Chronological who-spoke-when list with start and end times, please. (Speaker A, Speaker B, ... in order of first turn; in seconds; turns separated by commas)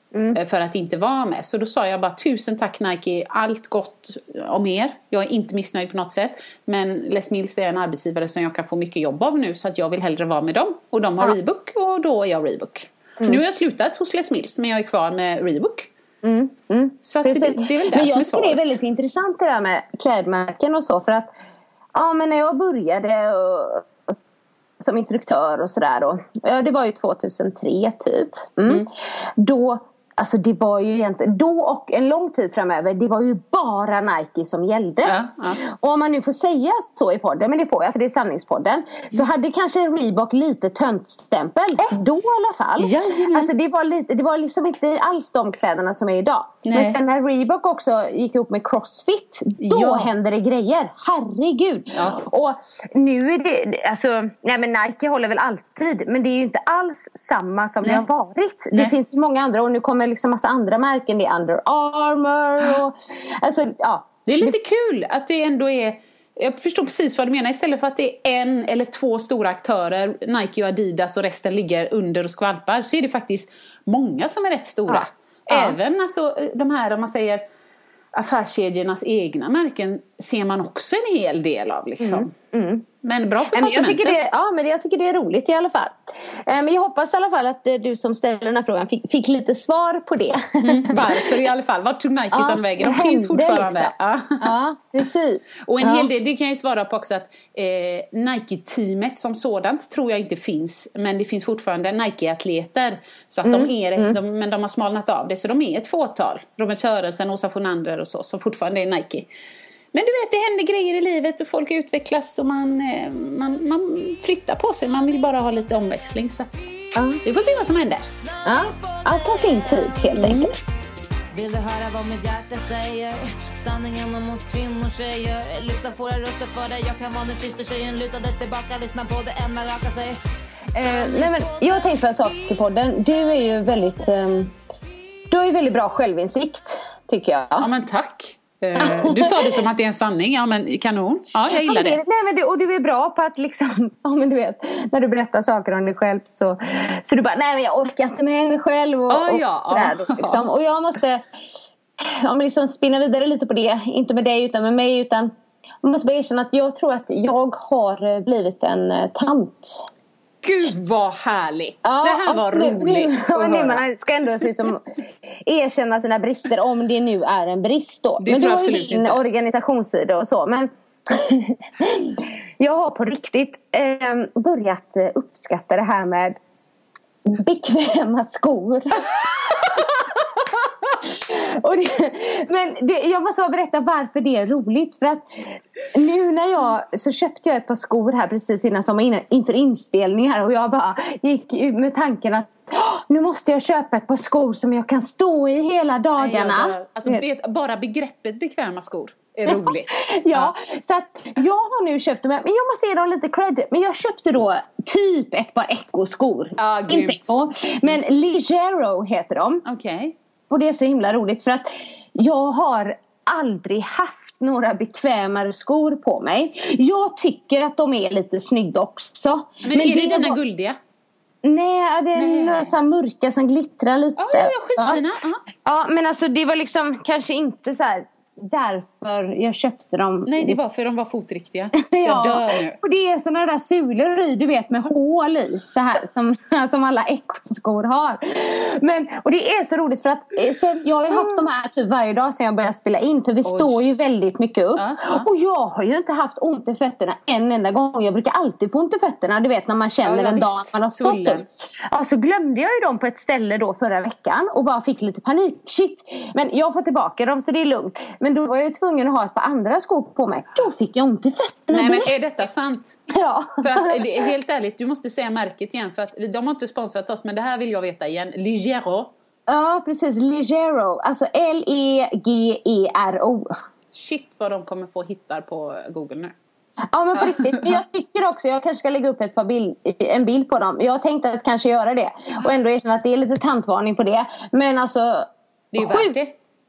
Speaker A: 0.3-15.9, Speaker B: 16.2-21.3, Speaker A: 17.0-18.8, Speaker B: 21.9-24.1, Speaker B: 24.8-28.9, Speaker B: 29.4-64.5, Speaker A: 35.0-35.6, Speaker A: 42.8-43.5, Speaker A: 46.6-47.0, Speaker A: 49.6-50.1, Speaker A: 52.0-52.2, Speaker A: 64.3-77.4, Speaker B: 74.9-75.8, Speaker A: 78.1-82.3, Speaker B: 82.0-82.8, Speaker A: 83.0-84.2, Speaker B: 83.5-91.1, Speaker A: 90.6-94.5, Speaker B: 92.3-96.1, Speaker A: 95.6-109.3, Speaker B: 103.5-104.2, Speaker A: 109.9-116.7, Speaker B: 117.0-117.2, Speaker A: 117.2-118.1, Speaker C: 118.1-120.5, Speaker B: 118.5-120.5, Speaker C: 121.3-130.2, Speaker C: 130.7-132.3, Speaker B: 130.7-134.5, Speaker B: 135.3-137.7, Speaker A: 137.6-142.0, Speaker B: 138.8-139.2, Speaker B: 141.5-151.2, Speaker A: 149.1-150.4, Speaker B: 152.0-155.3, Speaker B: 155.8-159.9, Speaker A: 160.4-163.8, Speaker B: 161.8-176.4, Speaker A: 168.2-169.2, Speaker B: 177.2-179.8, Speaker B: 181.0-197.2, Speaker A: 196.2-200.5, Speaker B: 199.5-209.6, Speaker A: 206.6-207.3, Speaker A: 209.7-210.2, Speaker B: 210.5-220.4, Speaker A: 219.6-220.8, Speaker B: 221.4-230.6, Speaker A: 222.2-222.7, Speaker A: 224.2-225.4, Speaker A: 230.3-232.8, Speaker B: 231.8-262.1, Speaker A: 243.4-243.8, Speaker A: 244.8-245.3, Speaker A: 250.0-251.5, Speaker A: 261.7-263.0, Speaker B: 263.1-264.0, Speaker A: 263.6-269.1, Speaker B: 269.5-273.6, Speaker A: 273.9-276.4, Speaker B: 276.9-286.1, Speaker A: 277.1-277.8, Speaker A: 285.7-286.4